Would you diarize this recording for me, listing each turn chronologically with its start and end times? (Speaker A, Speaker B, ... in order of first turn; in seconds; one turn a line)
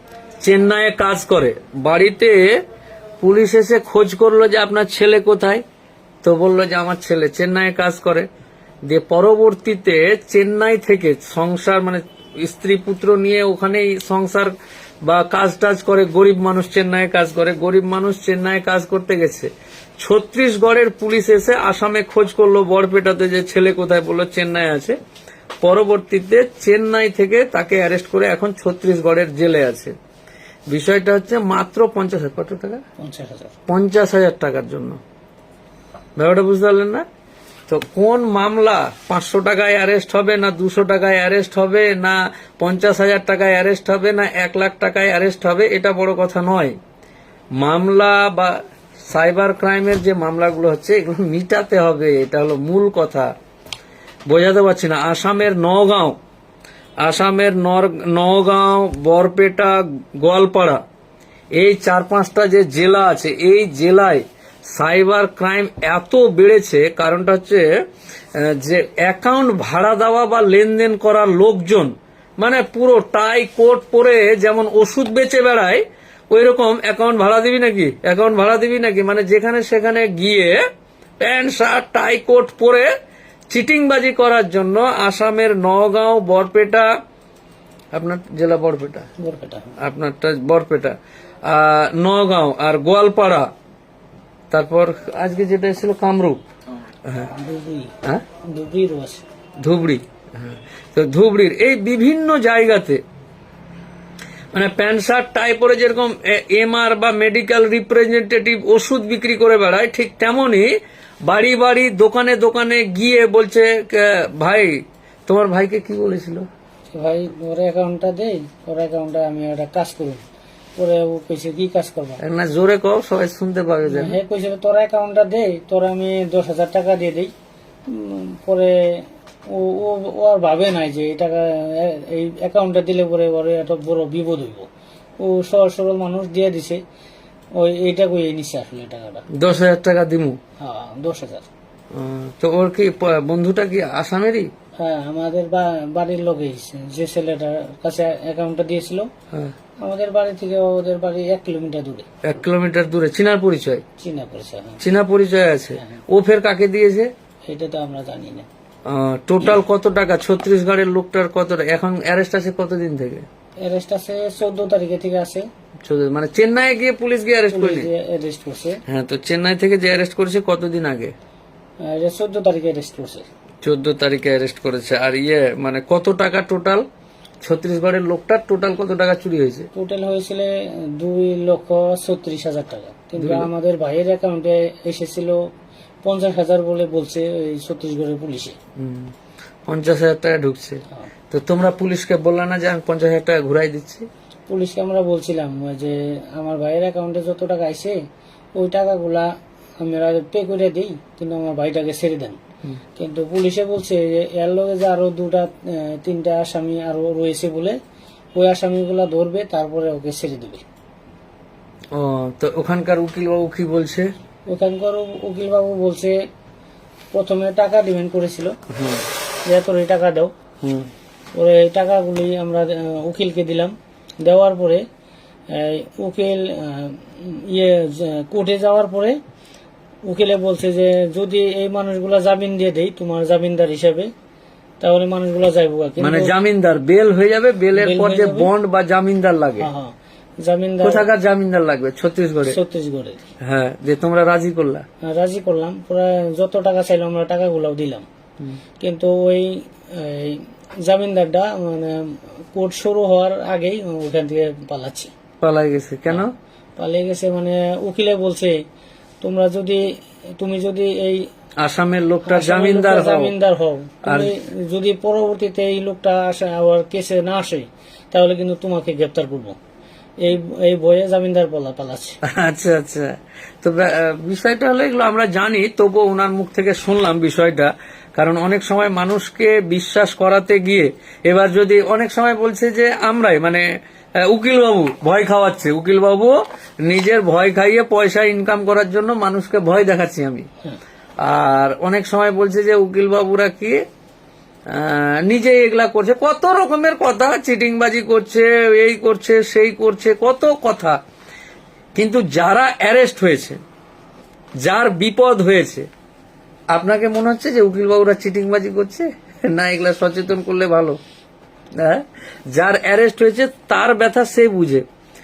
Speaker A: 0.4-2.6
Speaker A: 3.2-5.6
Speaker A: 6.2-8.3
Speaker A: 8.9-24.9
Speaker A: 25.6-29.9
Speaker A: 30.7-32.8
Speaker B: 33.0-33.5
Speaker A: 33.7-35.0
Speaker A: 36.1-37.0
Speaker A: 37.7-46.8
Speaker A: 47.6-53.3
Speaker A: 54.3-56.2
Speaker A: 57.0-60.8
Speaker A: 61.5-67.7
Speaker A: 68.3-80.6
Speaker A: 81.2-82.9
Speaker A: 83.5-86.9
Speaker A: 87.9-89.0
Speaker B: 89.2-89.7
Speaker A: 89.8-91.0
Speaker A: 91.5-93.5
Speaker A: 94.5-96.4
Speaker A: 97.0-97.3
Speaker B: 97.3-97.9
Speaker B: 98.5-99.2
Speaker A: 99.6-103.0
Speaker A: 104.5-116.5
Speaker B: 116.9-120.2
Speaker B: 120.8-122.2
Speaker A: 122.2-124.2
Speaker B: 123.8-127.3
Speaker B: 127.9-128.8
Speaker B: 129.5-134.7
Speaker B: 135.2-136.8
Speaker B: 137.6-139.2
Speaker A: 139.3-140.4
Speaker B: 140.6-141.5
Speaker A: 141.9-144.5
Speaker B: 144.8-149.1
Speaker B: 149.8-152.1
Speaker A: 152.2-153.8
Speaker B: 154.0-154.8
Speaker A: 154.8-157.1
Speaker B: 157.5-158.4
Speaker A: 158.9-163.2
Speaker B: 163.6-165.5
Speaker A: 165.8-167.9
Speaker B: 167.5-168.8
Speaker A: 168.9-171.1
Speaker B: 171.9-173.2
Speaker A: 173.6-176.8
Speaker A: 177.4-179.7
Speaker B: 179.7-185.4
Speaker A: 183.2-183.5
Speaker B: 186.0-188.6
Speaker A: 188.8-189.1
Speaker A: 189.7-194.1
Speaker B: 194.5-198.0
Speaker B: 198.6-199.3
Speaker B: 199.8-202.4
Speaker B: 202.9-207.8
Speaker B: 208.3-210.6
Speaker A: 211.9-214.1
Speaker B: 214.5-216.2
Speaker B: 217.1-218.5
Speaker A: 218.7-219.0
Speaker B: 219.4-220.3
Speaker A: 220.6-220.9
Speaker B: 221.3-224.8
Speaker B: 225.5-229.2
Speaker B: 230.1-234.1
Speaker B: 234.8-236.3
Speaker A: 236.0-239.7
Speaker B: 237.7-238.5
Speaker B: 239.6-241.1
Speaker A: 240.8-242.6
Speaker B: 242.5-243.3
Speaker A: 243.4-244.8
Speaker B: 245.1-248.0
Speaker B: 248.8-255.1
Speaker A: 255.4-256.3
Speaker B: 256.8-258.6
Speaker B: 259.2-259.8
Speaker B: 260.4-261.3
Speaker A: 261.6-263.3
Speaker B: 262.2-269.6
Speaker A: 264.0-264.3
Speaker B: 270.2-272.2
Speaker A: 272.2-283.6
Speaker A: 284.2-290.4
Speaker A: 291.2-293.8
Speaker A: 294.7-301.0
Speaker A: 301.9-303.6
Speaker A: 304.6-305.9
Speaker A: 306.7-311.0
Speaker A: 311.8-314.8